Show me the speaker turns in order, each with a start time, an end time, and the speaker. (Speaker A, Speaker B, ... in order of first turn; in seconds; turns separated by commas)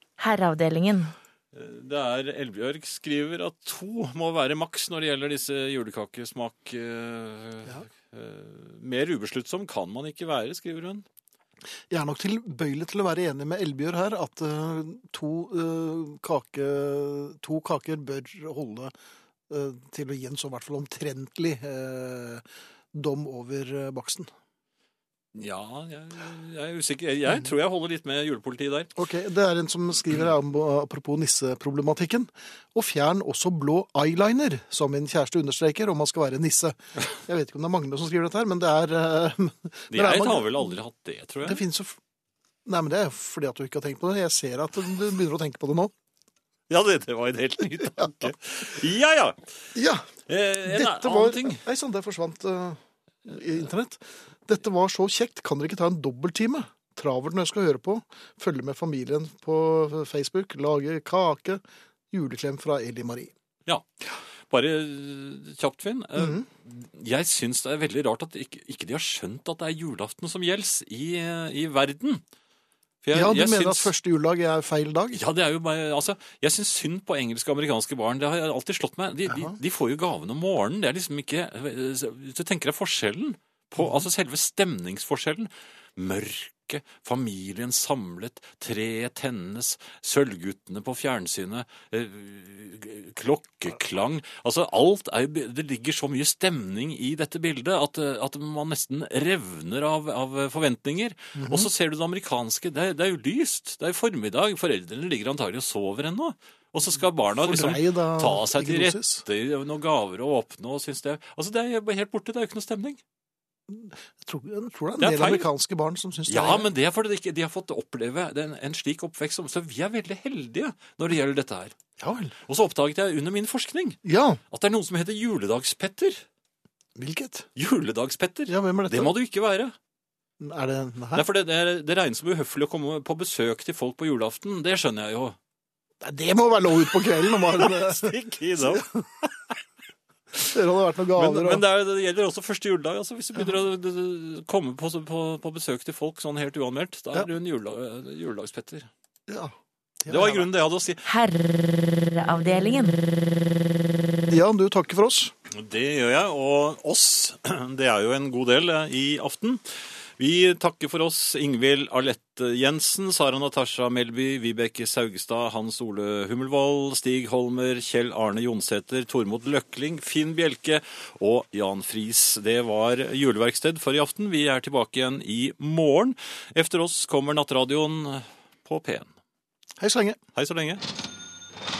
Speaker A: 0.2-1.1, Speaker B: 1.5-11.1, Speaker C: 11.9-18.9, Speaker C: 19.5-24.3, Speaker B: 25.3-28.9, Speaker C: 29.0-40.7, Speaker B: 39.9-41.6, Speaker C: 41.4-42.0, Speaker C: 42.6-45.9, Speaker B: 46.7-49.5, Speaker C: 48.0-48.3, Speaker C: 49.7-50.1, Speaker B: 50.3-51.6, Speaker C: 50.6-61.6, Speaker C: 62.1-63.3, Speaker B: 63.7-72.2, Speaker C: 66.2-66.4, Speaker B: 73.0-73.9, Speaker C: 73.1-75.2, Speaker B: 75.1-113.0, Speaker C: 79.3-79.5, Speaker C: 101.3-101.7, Speaker C: 107.3-109.2, Speaker C: 113.7-116.7, Speaker B: 115.0-115.5, Speaker B: 116.3-121.7, Speaker C: 122.0-122.3, Speaker B: 122.5-124.0, Speaker C: 124.0-124.4, Speaker B: 124.5-126.2, Speaker C: 127.0-127.5, Speaker B: 127.5-129.7, Speaker C: 128.5-129.1, Speaker C: 130.4-131.2, Speaker B: 131.1-135.4, Speaker C: 136.0-139.0, Speaker B: 137.5-139.3, Speaker C: 140.3-141.6, Speaker B: 141.2-148.9, Speaker C: 149.3-150.5, Speaker B: 150.1-151.0, Speaker A: 151.0-153.0, Speaker C: 154.3-155.3, Speaker B: 155.5-159.6, Speaker B: 160.2-179.1, Speaker C: 179.8-180.2, Speaker B: 180.3-180.8